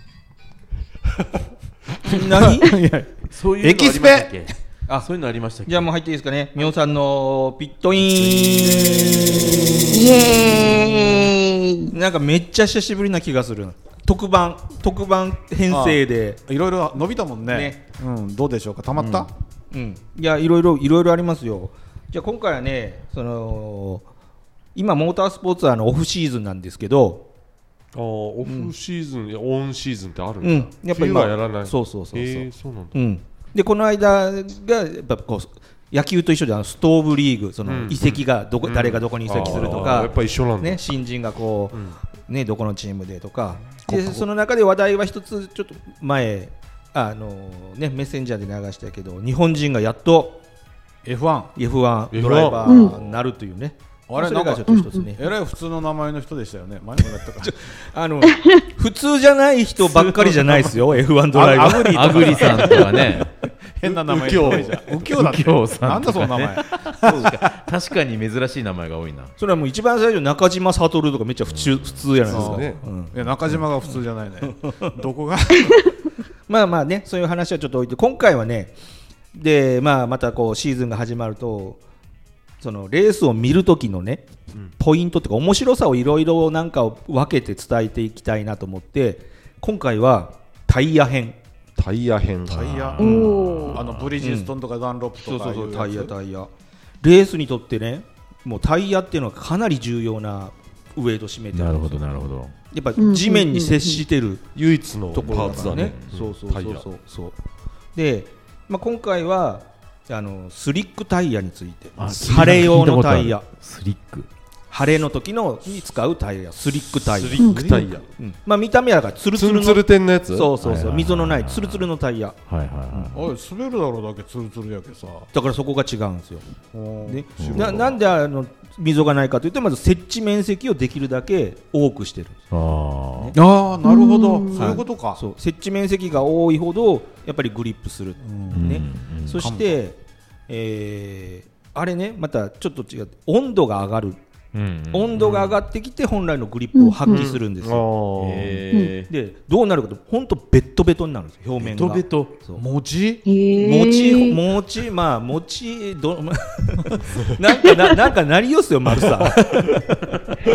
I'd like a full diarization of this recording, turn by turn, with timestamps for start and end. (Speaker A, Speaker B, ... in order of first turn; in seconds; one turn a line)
Speaker A: 2.0-4.3
Speaker B: 2.0-2.8
Speaker C: 3.3-5.9
Speaker B: 5.6-10.9
Speaker A: 8.3-10.1
Speaker D: 9.9-11.9
Speaker B: 11.9-16.4
Speaker A: 15.7-19.3
Speaker B: 17.5-17.8
Speaker B: 19.7-24.1
Speaker B: 24.7-27.3
Speaker E: 27.9-33.0
Speaker B: 28.4-28.7
Speaker B: 30.4-50.4
Speaker E: 37.6-40.8
Speaker C: 39.4-39.8
Speaker A: 43.9-44.2
Speaker A: 51.0-51.5
Speaker B: 51.5-55.3
Speaker E: 52.1-53.0
Speaker D: 52.6-52.9
Speaker A: 54.1-57.6
Speaker D: 54.7-55.1
Speaker B: 57.4-63.2
Speaker D: 58.2-58.6
Speaker A: 60.2-60.7
Speaker A: 61.3-67.4
Speaker C: 61.9-63.3
Speaker E: 63.8-65.0
Speaker C: 64.9-69.3
Speaker B: 67.0-67.3
Speaker B: 69.4-73.2
Speaker C: 71.5-72.1
Speaker E: 72.3-72.8
Speaker A: 72.3-76.0
Speaker B: 74.5-74.9
Speaker B: 76.5-78.7
Speaker B: 79.3-81.8
Speaker B: 82.6-84.2
Speaker B: 84.8-91.4
Speaker E: 91.8-92.9
Speaker A: 92.5-96.1
Speaker C: 92.5-94.1
Speaker D: 93.0-93.8
Speaker B: 93.0-94.5
Speaker B: 95.2-96.5
Speaker B: 97.0-104.4
Speaker C: 101.5-102.5
Speaker D: 103.0-104.0
Speaker E: 104.5-106.8
Speaker B: 105.1-107.3
Speaker C: 105.6-106.2
Speaker B: 107.9-113.5
Speaker C: 112.0-114.3
Speaker B: 114.7-122.4
Speaker E: 117.0-118.0
Speaker D: 117.4-117.8
Speaker A: 117.4-117.9
Speaker E: 119.3-120.5
Speaker C: 120.6-121.9
Speaker C: 122.5-123.3
Speaker B: 122.9-123.2
Speaker A: 123.1-125.3
Speaker B: 125.3-126.4
Speaker A: 126.7-127.9
Speaker B: 127.0-132.4
Speaker C: 127.4-127.8
Speaker E: 127.5-127.9
Speaker C: 132.5-133.3
Speaker A: 133.3-135.2
Speaker D: 133.8-134.8
Speaker B: 134.5-140.0
Speaker C: 138.5-139.4
Speaker A: 139.4-139.8
Speaker B: 140.5-144.2
Speaker C: 144.5-145.6
Speaker B: 144.9-147.8
Speaker D: 146.7-147.3
Speaker E: 147.1-148.6
Speaker C: 148.2-149.1
Speaker B: 149.1-152.6
Speaker C: 151.6-152.3
Speaker A: 152.5-153.2
Speaker D: 153.2-154.4
Speaker B: 153.5-160.0
Speaker D: 157.6-157.9